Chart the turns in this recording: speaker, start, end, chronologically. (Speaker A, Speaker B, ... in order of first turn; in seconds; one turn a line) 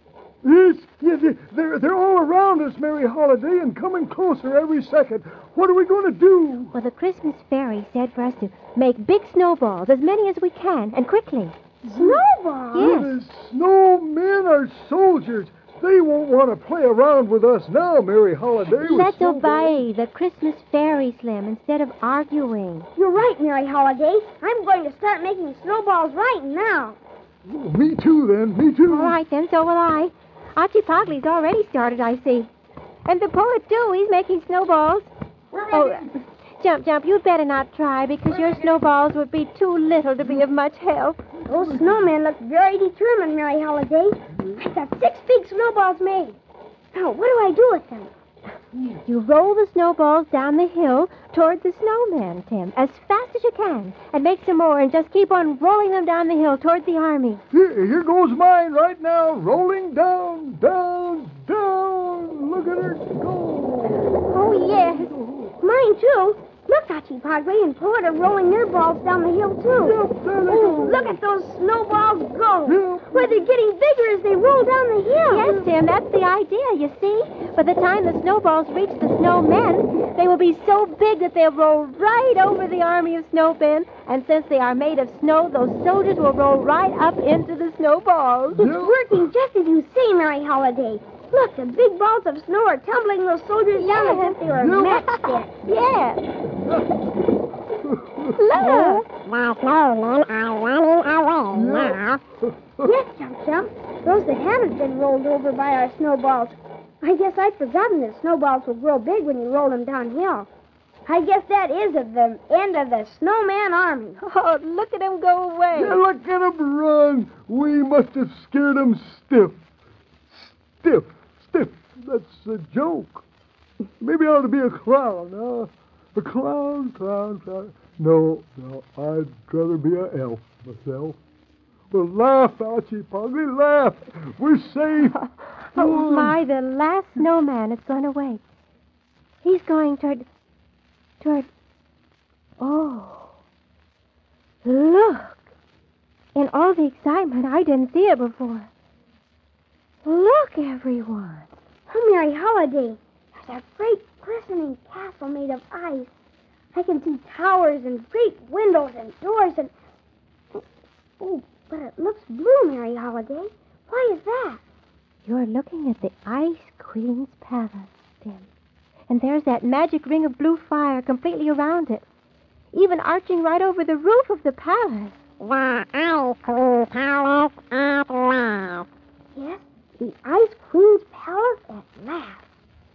Speaker A: 0.4-6.8
Speaker B: 6.7-11.6
Speaker A: 11.9-12.2
Speaker C: 11.9-13.1
Speaker B: 12.7-13.1
Speaker A: 12.8-19.8
Speaker B: 18.7-22.9
Speaker C: 22.9-27.0
Speaker A: 27.4-29.2
Speaker B: 28.9-32.5
Speaker B: 33.0-35.1
Speaker A: 35.5-36.1
Speaker B: 35.7-41.2
Speaker A: 41.4-42.1
Speaker C: 41.5-46.4
Speaker A: 44.3-44.7
Speaker C: 46.9-48.1
Speaker B: 48.8-57.4
Speaker A: 57.5-65.5
Speaker B: 64.0-65.2
Speaker C: 65.6-75.6
Speaker A: 69.8-71.2
Speaker A: 72.6-73.5
Speaker B: 75.3-88.6
Speaker A: 88.5-89.3
Speaker C: 88.6-95.5
Speaker B: 93.8-94.4
Speaker A: 94.5-95.1
Speaker B: 95.2-96.2
Speaker A: 96.5-97.0
Speaker A: 97.7-98.6
Speaker B: 98.3-99.0
Speaker C: 98.6-99.0
Speaker D: 99.3-101.4
Speaker A: 101.5-102.9
Speaker C: 102.8-110.5
Speaker C: 111.0-114.2
Speaker B: 114.2-116.0
Speaker A: 115.7-119.6
Speaker A: 120.3-123.2
Speaker A: 124.0-131.2
Speaker A: 131.9-135.2
Speaker B: 135.0-138.4
Speaker A: 135.7-136.4
Speaker B: 139.4-140.3
Speaker B: 141.2-141.5
Speaker B: 142.6-143.3
Speaker B: 144.6-145.4
Speaker B: 146.3-148.7
Speaker B: 150.0-151.5
Speaker C: 151.9-156.1
Speaker C: 156.7-159.7
Speaker C: 161.2-164.6
Speaker B: 165.2-168.5
Speaker B: 169.1-172.0
Speaker B: 172.7-175.2
Speaker D: 175.8-178.7
Speaker C: 179.3-182.4